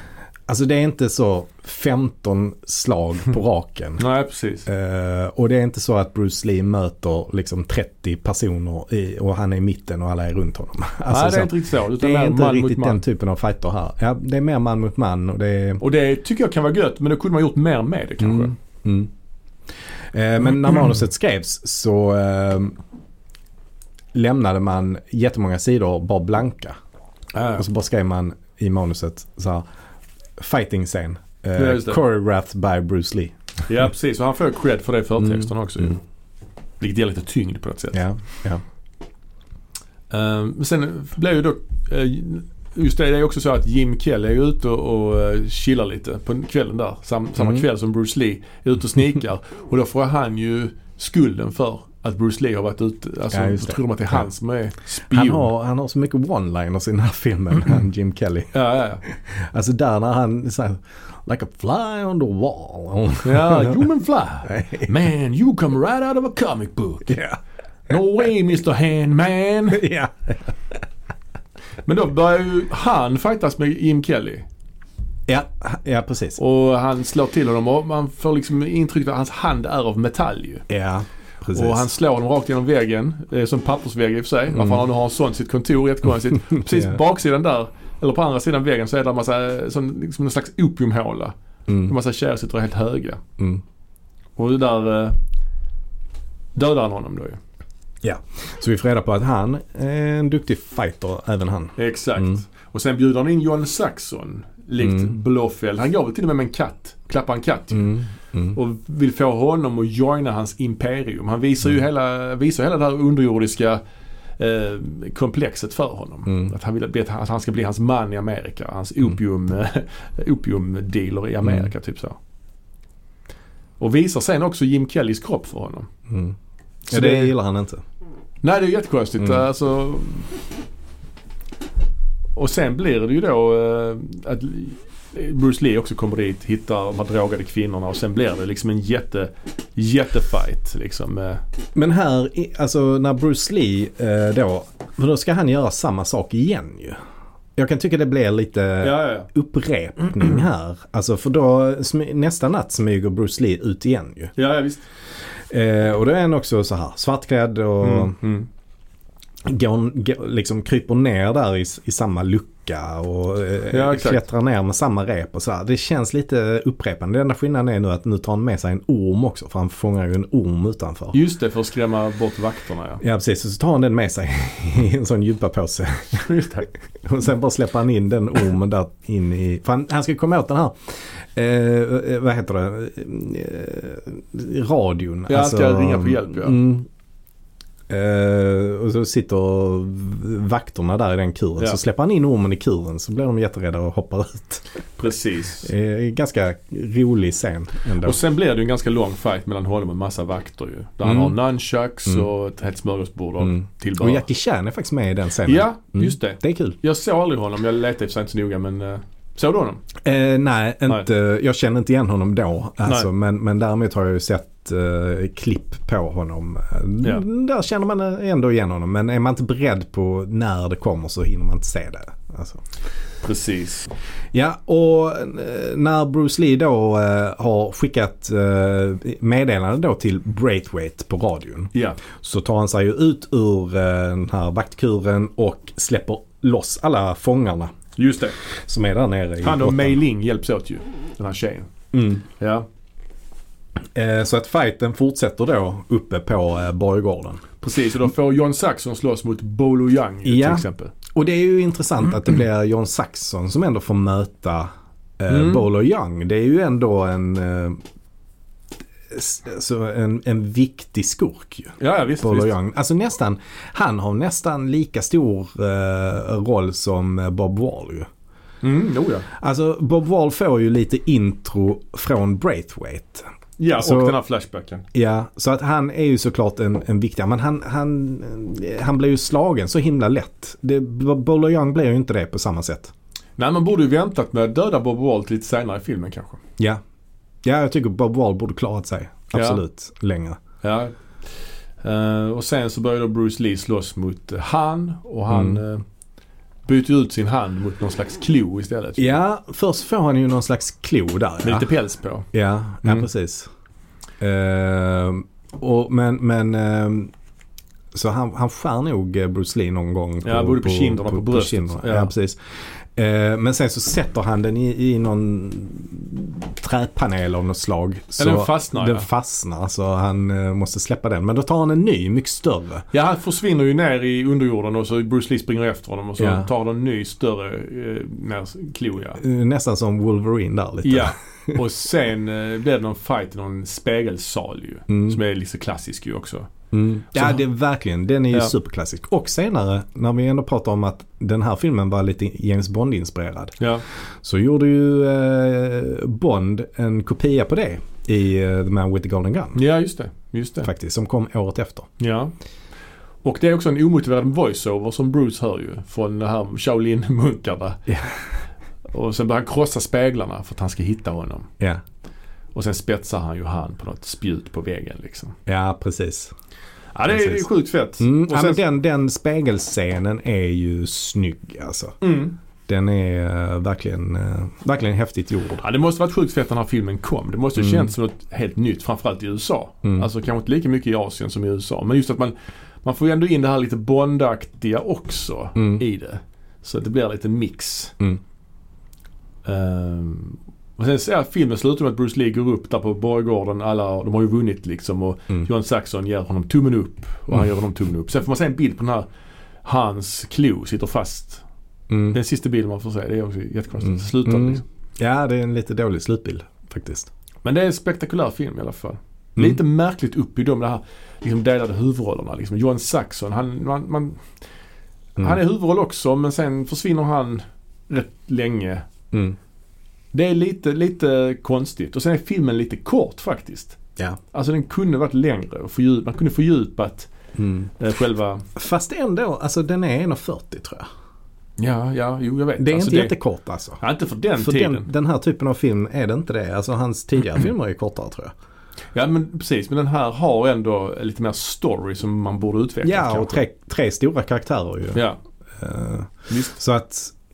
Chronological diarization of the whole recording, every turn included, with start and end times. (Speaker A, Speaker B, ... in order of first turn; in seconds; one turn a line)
Speaker A: 0.5-4.0
Speaker B: 4.0-4.7
Speaker A: 4.7-15.8
Speaker B: 11.1-13.0
Speaker B: 15.8-18.5
Speaker A: 18.2-19.1
Speaker A: 20.1-22.8
Speaker A: 24.1-26.8
Speaker B: 27.3-27.6
Speaker A: 27.6-29.6
Speaker A: 30.4-33.3
Speaker B: 31.6-32.0
Speaker B: 33.7-36.0
Speaker A: 35.2-35.8
Speaker B: 36.8-38.0
Speaker A: 37.9-38.6
Speaker B: 40.1-55.5
Speaker A: 47.4-47.6
Speaker A: 53.3-54.2
Speaker A: 55.1-58.5
Speaker B: 58.5-59.0
Speaker A: 59.0-63.8
Speaker B: 63.2-67.2
Speaker A: 64.5-64.9
Speaker A: 67.1-67.4
Speaker B: 67.9-69.8
Speaker A: 69.7-70.5
Speaker B: 71.8-74.4
Speaker A: 75.3-76.4
Speaker B: 76.4-80.6
Speaker A: 80.7-81.9
Speaker B: 81.5-93.2
Speaker A: 84.5-84.8
Speaker A: 86.4-87.0
Speaker A: 91.7-91.9
Speaker B: 94.4-95.2
Speaker B: 96.5-97.4
Speaker A: 98.0-102.4
Speaker B: 101.8-108.0
Speaker A: 104.8-105.1
Speaker A: 107.7-108.5
Speaker B: 108.5-113.8
Speaker B: 114.4-122.2
Speaker A: 116.3-116.5
Speaker A: 121.4-121.7
Speaker B: 123.8-125.9
Speaker A: 126.1-126.3
Speaker B: 126.9-127.3
Speaker A: 126.9-127.8
Speaker B: 128.4-130.3
Speaker B: 132.3-141.4
Speaker A: 141.7-147.0
Speaker A: 147.6-154.3
Speaker B: 148.8-149.3
Speaker B: 154.3-154.8
Speaker A: 155.5-158.2
Speaker B: 157.8-158.5
Speaker A: 159.4-171.2
Speaker B: 163.7-164.2
Speaker B: 171.1-173.0
Speaker A: 173.0-176.3
Speaker B: 176.2-176.7
Speaker A: 177.0-186.9
Speaker B: 185.3-186.6
Speaker A: 187.9-194.7
Speaker B: 195.0-195.7
Speaker A: 195.6-198.2
Speaker B: 198.0-204.2
Speaker A: 201.0-201.3
Speaker A: 203.4-206.8
Speaker B: 205.4-209.8
Speaker A: 210.0-222.6
Speaker B: 223.2-223.9
Speaker A: 224.3-237.7
Speaker B: 231.7-232.0
Speaker B: 238.0-238.4
Speaker A: 238.6-240.0
Speaker B: 239.4-241.7
Speaker A: 241.9-242.2
Speaker B: 242.3-242.7
Speaker A: 243.9-247.5
Speaker B: 247.6-250.9
Speaker A: 250.2-257.8
Speaker B: 255.3-255.7
Speaker A: 259.1-268.1
Speaker B: 261.8-262.5
Speaker B: 268.6-269.3
Speaker A: 269.3-273.2
Speaker B: 273.6-274.8
Speaker A: 273.8-274.1
Speaker A: 274.9-282.9
Speaker B: 283.4-286.4
Speaker A: 287.4-290.4
Speaker B: 289.3-289.6
Speaker B: 290.6-290.9
Speaker B: 291.8-295.8
Speaker A: 295.3-295.6
Speaker B: 296.6-299.2
Speaker A: 299.0-301.7
Speaker B: 301.4-302.3
Speaker A: 302.3-303.5
Speaker A: 304.2-307.1
Speaker A: 307.9-322.9
Speaker B: 310.2-312.1
Speaker B: 318.2-319.1
Speaker B: 322.9-329.2
Speaker A: 326.2-326.5
Speaker A: 329.2-331.6
Speaker B: 330.8-336.5
Speaker A: 334.9-335.2
Speaker A: 336.7-343.6
Speaker B: 337.1-337.4
Speaker B: 343.6-343.8
Speaker A: 344.2-349.6
Speaker B: 349.5-350.7
Speaker A: 350.6-351.9
Speaker B: 352.0-352.3
Speaker B: 353.2-357.8
Speaker A: 357.9-358.2
Speaker B: 358.9-361.5
Speaker B: 362.5-365.4
Speaker A: 365.4-366.3
Speaker B: 366.9-368.6
Speaker A: 367.1-367.4
Speaker A: 368.0-372.0
Speaker B: 372.0-372.3
Speaker A: 372.7-375.6
Speaker B: 375.6-387.9
Speaker A: 377.6-377.9
Speaker A: 385.6-385.8
Speaker B: 389.4-399.1
Speaker B: 399.6-401.4
Speaker A: 401.9-402.2
Speaker B: 402.1-404.6
Speaker A: 404.2-407.1
Speaker B: 407.4-414.2
Speaker B: 415.2-418.9
Speaker B: 420.1-423.8
Speaker B: 424.3-427.1
Speaker A: 427.4-427.7
Speaker B: 427.8-428.4
Speaker A: 428.5-430.9
Speaker B: 431.6-433.1
Speaker A: 432.6-433.8
Speaker B: 433.8-434.9
Speaker A: 434.4-438.3
Speaker B: 438.9-443.4
Speaker A: 442.8-445.0
Speaker B: 444.9-445.2
Speaker A: 445.6-447.1
Speaker B: 446.3-446.6